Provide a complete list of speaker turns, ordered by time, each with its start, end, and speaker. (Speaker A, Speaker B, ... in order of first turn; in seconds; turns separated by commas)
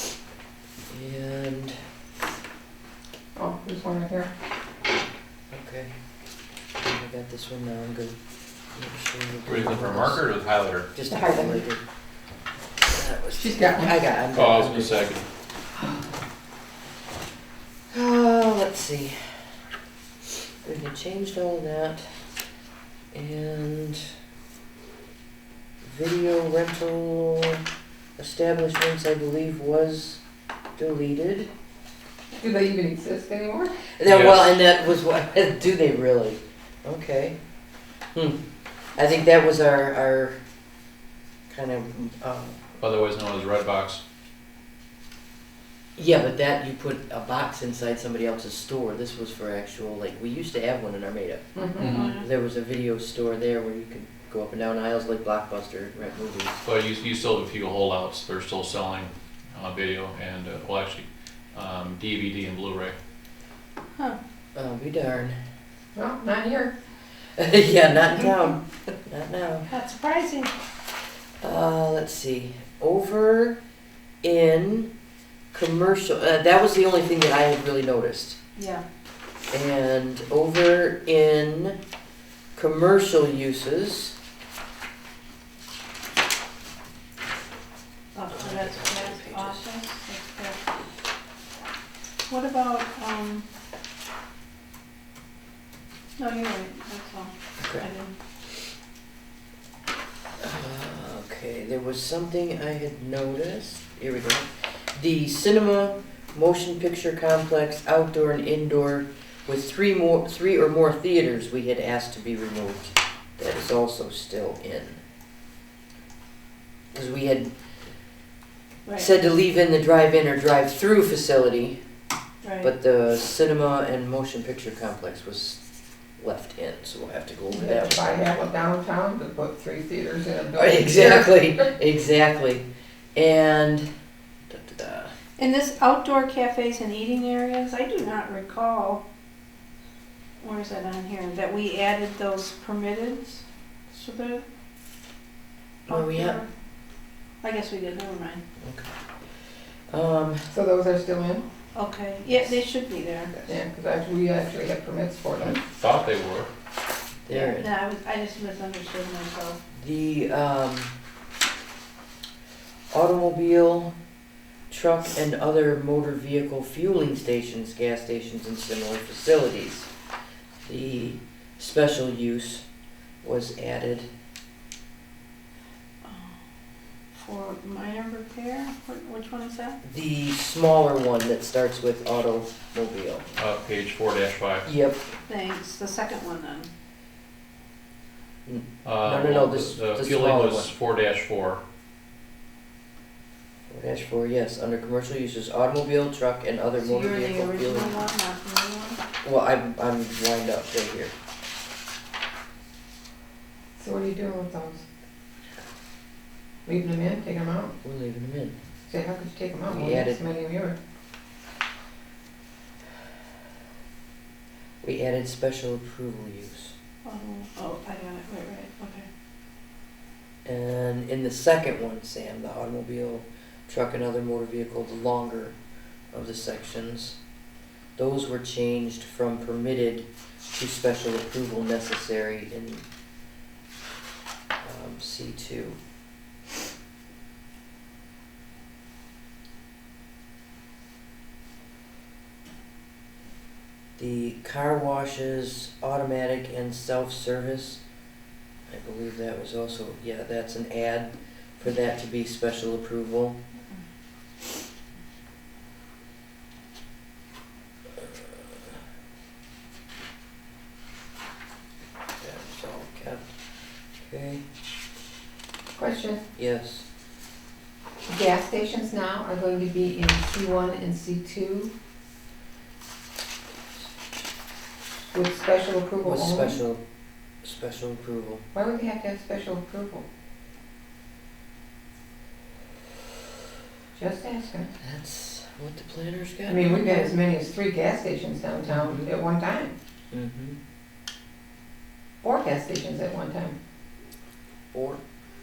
Speaker A: 0.9-1.8, Speaker B: 3.4-4.3, Speaker A: 5.5-5.9, Speaker A: 6.8-8.2, Speaker A: 8.7-10.2, Speaker C: 9.5-10.9, Speaker A: 10.9-11.8, Speaker B: 11.1-11.6, Speaker A: 12.8-15.0, Speaker B: 13.3-13.9, Speaker C: 14.3-15.2, Speaker A: 17.9-19.2, Speaker A: 20.6-22.1, Speaker A: 23.1-24.0, Speaker A: 25.8-27.6, Speaker A: 28.2-30.2, Speaker A: 30.8-31.5, Speaker B: 32.3-33.7, Speaker A: 34.0-37.4, Speaker C: 34.0-34.5, Speaker A: 38.1-38.4, Speaker A: 39.0-40.4, Speaker A: 41.5-42.6, Speaker C: 42.8-44.0, Speaker A: 46.0-56.6, Speaker B: 51.5-52.0, Speaker C: 51.8-52.1, Speaker D: 51.9-52.3, Speaker C: 56.6-62.9, Speaker A: 64.5-65.4, Speaker B: 65.9-66.7, Speaker A: 67.4-69.7, Speaker D: 69.7-70.5, Speaker A: 71.4-73.6, Speaker A: 74.2-74.9, Speaker A: 75.5-78.4, Speaker D: 78.5-78.8, Speaker A: 79.5-81.8, Speaker A: 82.5-84.1, Speaker D: 88.1-90.6, Speaker A: 88.3-89.7, Speaker D: 92.3-93.5, Speaker D: 96.2-98.1, Speaker A: 97.6-97.9, Speaker A: 100.4-115.0, Speaker A: 116.9-117.5, Speaker A: 118.9-121.8, Speaker D: 122.4-122.7, Speaker A: 122.6-125.6, Speaker A: 126.2-128.4, Speaker B: 127.5-131.4, Speaker A: 130.5-133.8, Speaker A: 134.5-135.1, Speaker D: 135.4-139.0, Speaker D: 140.4-144.4, Speaker D: 145.8-146.5, Speaker A: 145.9-146.4, Speaker D: 147.4-148.4, Speaker A: 148.6-149.0, Speaker A: 149.9-150.5, Speaker B: 150.5-151.4, Speaker D: 151.8-153.3, Speaker B: 153.5-155.6, Speaker C: 155.4-156.5, Speaker A: 157.2-157.7, Speaker D: 157.3-159.6, Speaker A: 159.7-160.9, Speaker A: 162.9-163.9, Speaker A: 164.7-169.9, Speaker A: 170.7-172.6, Speaker A: 173.2-174.1, Speaker D: 176.0-176.4, Speaker D: 177.1-179.8, Speaker A: 179.8-183.3, Speaker C: 183.3-184.7, Speaker A: 184.7-185.1, Speaker D: 185.3-186.7, Speaker A: 188.4-190.7, Speaker C: 188.8-191.6, Speaker A: 193.7-198.1, Speaker D: 196.8-199.0, Speaker A: 199.2-201.1, Speaker B: 203.8-204.8, Speaker B: 206.7-207.7, Speaker A: 207.8-208.6, Speaker B: 208.9-210.8, Speaker A: 209.7-210.2, Speaker A: 214.8-216.7, Speaker D: 217.0-219.1, Speaker A: 220.4-225.5, Speaker A: 226.1-227.2, Speaker A: 228.0-232.8, Speaker A: 234.6-235.8, Speaker A: 244.0-247.8, Speaker A: 248.7-253.4, Speaker A: 258.0-258.6, Speaker A: 262.2-263.2, Speaker A: 264.0-264.4, Speaker B: 265.7-266.2, Speaker A: 266.4-266.8, Speaker B: 268.1-271.7, Speaker B: 275.1-276.6, Speaker A: 276.0-276.8, Speaker A: 277.4-278.4, Speaker B: 278.5-280.0, Speaker B: 283.9-284.7, Speaker A: 284.8-287.1, Speaker B: 286.4-289.7, Speaker A: 288.7-289.1, Speaker A: 290.1-290.6, Speaker B: 292.2-293.6, Speaker A: 294.7-295.0